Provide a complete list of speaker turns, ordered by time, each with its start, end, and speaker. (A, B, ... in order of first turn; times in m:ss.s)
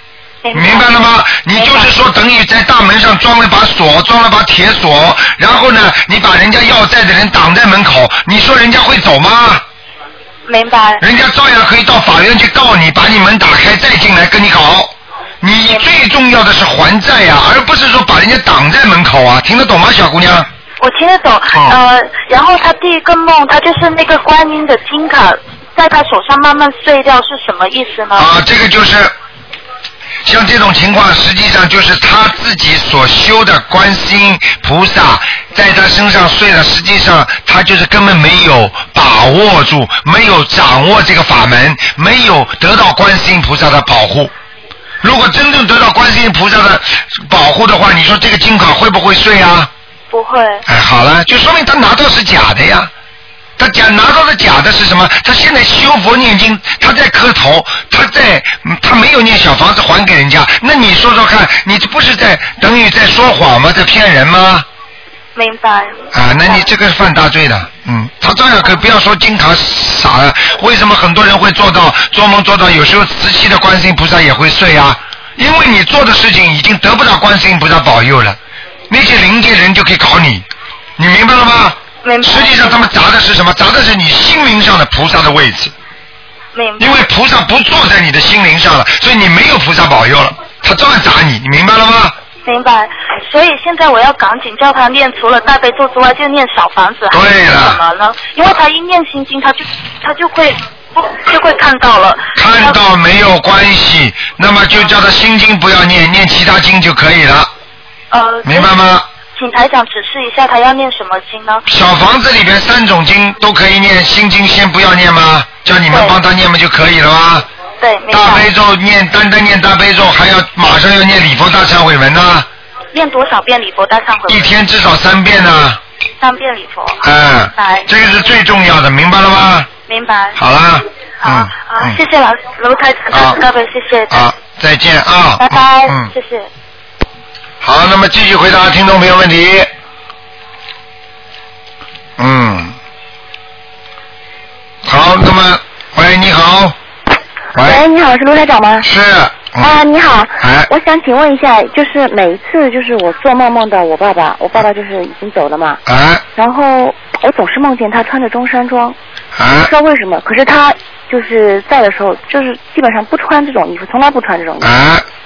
0:00.4-0:01.0 A
0:00.5-0:09.6 B
0:01.5-0:01.9 A
0:10.5-0:11.0 A
0:11.0-0:20.5 B
0:15.7-0:15.9 A
0:20.8-0:28.3 A
0:28.2-0:29.1 B
0:30.2-0:44.3 B
0:45.0-0:49.7 B
0:50.1-0:50.6 A
0:50.7-0:52.9 B
0:53.6-1:04.7 B
1:05.4-1:06.7 A
1:06.1-1:18.4 B
1:18.9-1:20.5 B
1:21.0-1:25.7 B
1:22.0-1:22.9 A
1:26.5-1:27.1 A
1:26.8-1:32.2 B
1:32.4-1:42.8 A
1:37.1-1:37.8 B
1:42.4-1:47.5 B
1:48.1-1:48.8 A
1:48.4-1:49.1 B
1:49.3-1:51.6 A
1:51.7-1:57.5 B
1:55.9-1:56.2 A
1:57.8-1:58.5 A
1:58.1-2:02.5 B
2:02.9-2:04.6 A
2:04.3-2:05.8 B
2:06.2-2:07.9 A
2:07.0-2:09.7 B
2:09.9-2:10.4 A
2:10.4-2:12.0 B
2:11.2-2:14.3 A
2:13.1-2:13.4 B
2:14.1-2:16.1 B
2:15.4-2:16.5 A
2:17.6-2:19.7 B
2:22.2-2:22.8 B
2:24.8-2:26.8 B
2:27.5-2:27.8 B
2:27.6-2:28.9 C
2:28.8-2:29.7 B
2:29.6-2:35.8 C
2:30.4-2:30.7 B
2:35.9-2:36.2 B
2:36.4-2:39.0 C
2:39.4-2:39.7 B
2:39.6-2:44.7 C
2:44.6-2:45.0 B